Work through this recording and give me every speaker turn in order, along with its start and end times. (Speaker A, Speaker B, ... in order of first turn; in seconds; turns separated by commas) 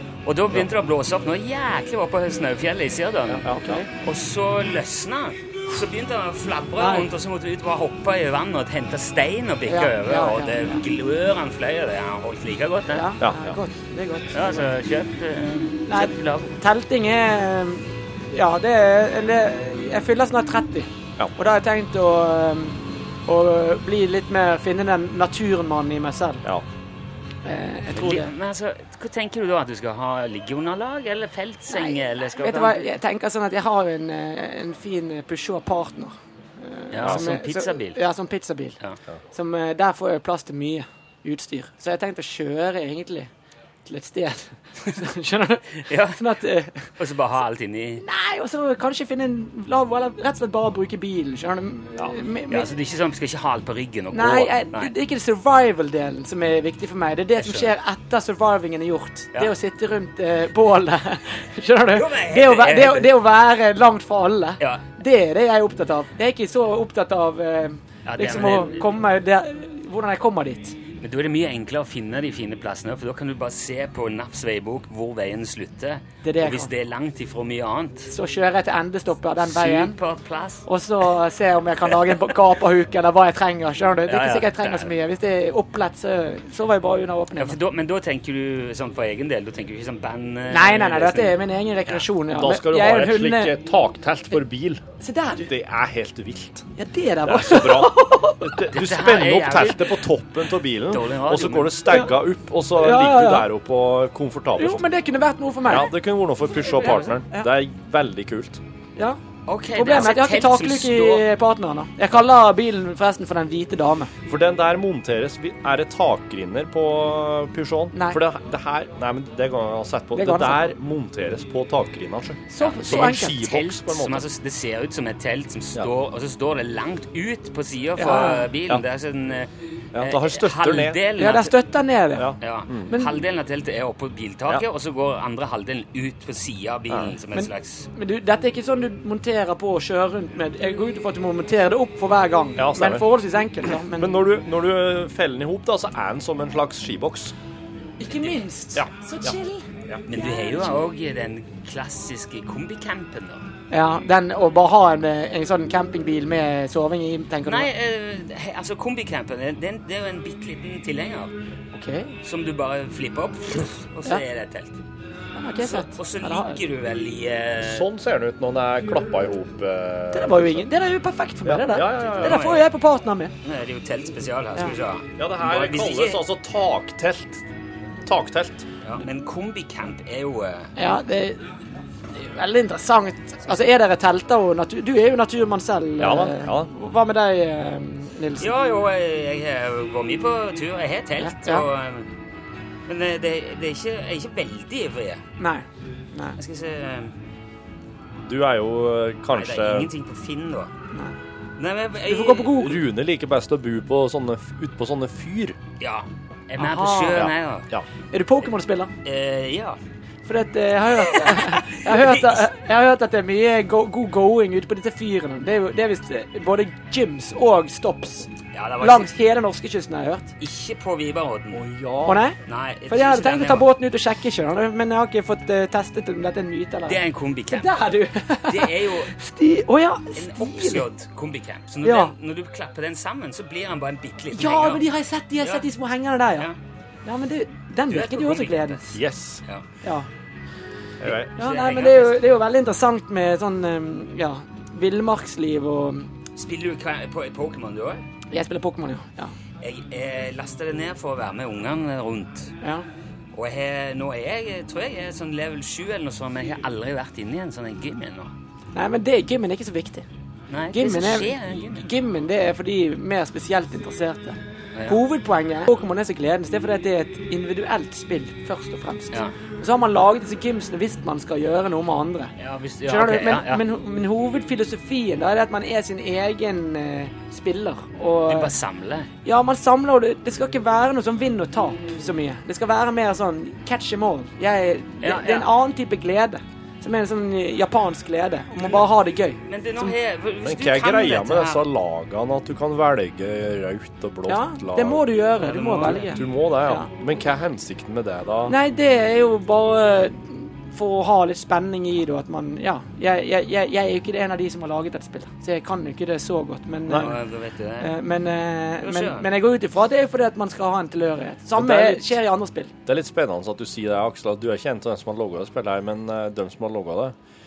Speaker A: 0.2-13.1, Speaker B: 3.3-3.8, Speaker C: 3.5-3.9, Speaker C: 6.8-7.1, Speaker C: 9.7-10.8, Speaker C: 12.9-14.7, Speaker B: 13.2-13.6, Speaker A: 14.3-16.5, Speaker C: 15.9-26.4, Speaker C: 27.4-28.3, Speaker A: 27.9-32.9, Speaker C: 31.7-38.8, Speaker A: 36.9-38.0, Speaker C: 39.3-43.3, Speaker C: 43.9-46.9, Speaker A: 45.9-46.2, Speaker A: 47.0-48.0, Speaker C: 48.0-52.7, Speaker A: 52.5-54.9, Speaker C: 54.1-70.8, Speaker A: 57.4-57.7, Speaker A: 61.9-63.1, Speaker A: 68.1-68.8, Speaker A: 71.0-78.1, Speaker C: 76.2-76.7, Speaker C: 78.1-80.0, Speaker A: 79.4-80.7, Speaker C: 80.7-87.6, Speaker A: 84.1-84.9, Speaker A: 87.4-92.0, Speaker C: 90.5-93.6, Speaker B: 92.3-94.8, Speaker C: 95.0-95.5, Speaker B: 95.4-96.7, Speaker C: 96.8-98.5, Speaker B: 97.2-104.8, Speaker A: 98.7-100.1, Speaker A: 100.9-102.0, Speaker C: 102.8-103.5, Speaker C: 104.6-105.9, Speaker B: 105.7-108.6, Speaker C: 106.6-107.5, Speaker A: 109.5-111.3, Speaker C: 109.7-114.1, Speaker B: 114.3-124.2, Speaker C: 117.9-118.2, Speaker C: 120.1-120.7, Speaker C: 122.5-123.4, Speaker A: 122.6-131.5, Speaker C: 128.0-128.5, Speaker B: 129.9-131.0, Speaker C: 131.2-132.3, Speaker B: 132.2-132.9, Speaker A: 132.4-137.9, Speaker C: 132.9-133.2, Speaker B: 136.9-137.2, Speaker C: 137.3-144.2, Speaker B: 142.6-143.1, Speaker B: 144.0-147.3, Speaker C: 148.0-150.8, Speaker B: 148.8-149.3, Speaker A: 150.1-153.4, Speaker C: 153.7-157.7, Speaker A: 157.4-161.3, Speaker C: 161.7-162.2, Speaker A: 162.2-164.8, Speaker C: 165.3-166.6, Speaker A: 165.6-167.9, Speaker B: 167.6-170.7, Speaker C: 170.1-173.3, Speaker B: 171.4-172.5, Speaker A: 171.9-172.7, Speaker A: 173.4-176.2, Speaker B: 175.2-177.4, Speaker B: 178.1-178.7, Speaker A: 178.8-180.7, Speaker C: 180.8-181.5, Speaker C: 182.1-188.5, Speaker B: 186.0-186.7, Speaker A: 188.4-192.1, Speaker C: 191.2-191.7, Speaker A: 192.9-195.2, Speaker C: 195.4-196.4, Speaker A: 196.4-197.1, Speaker B: 198.3-199.9, Speaker A: 199.3-200.7, Speaker A: 201.6-202.7, Speaker C: 202.0-202.8, Speaker B: 202.6-205.6, Speaker A: 205.8-207.7, Speaker C: 206.6-207.3, Speaker B: 207.1-207.9, Speaker C: 208.1-208.9, Speaker A: 209.0-209.8, Speaker C: 210.3-220.3, Speaker A: 211.0-212.4, Speaker A: 218.5-219.1, Speaker A: 220.4-221.7, Speaker B: 221.5-222.2, Speaker C: 222.1-222.4, Speaker A: 222.5-223.7, Speaker C: 222.9-230.8, Speaker A: 226.9-227.8, Speaker A: 228.5-229.1, Speaker A: 230.2-234.8, Speaker C: 231.8-232.1, Speaker C: 234.3-236.5, Speaker C: 237.1-239.0, Speaker A: 237.9-238.8, Speaker B: 238.9-239.4, Speaker B: 241.0-241.3, Speaker A: 241.3-242.2, Speaker C: 241.4-246.1, Speaker A: 246.4-248.0, Speaker C: 248.3-249.3, Speaker A: 249.6-252.5, Speaker A: 253.3-258.3, Speaker C: 258.8-260.1, Speaker A: 260.5-261.9, Speaker C: 260.7-264.4, Speaker C: 264.9-272.3, Speaker A: 272.4-273.6, Speaker C: 272.9-278.5, Speaker A: 278.3-279.1, Speaker C: 279.2-290.0, Speaker A: 285.0-285.5, Speaker A: 289.5-291.6, Speaker B: 290.4-295.0, Speaker C: 294.3-296.9, Speaker A: 295.4-296.3, Speaker B: 296.1-298.5, Speaker C: 298.5-307.2, Speaker A: 306.9-307.9, Speaker C: 307.8-312.7, Speaker A: 308.8-309.3, Speaker B: 311.6-312.1, Speaker B: 312.9-317.1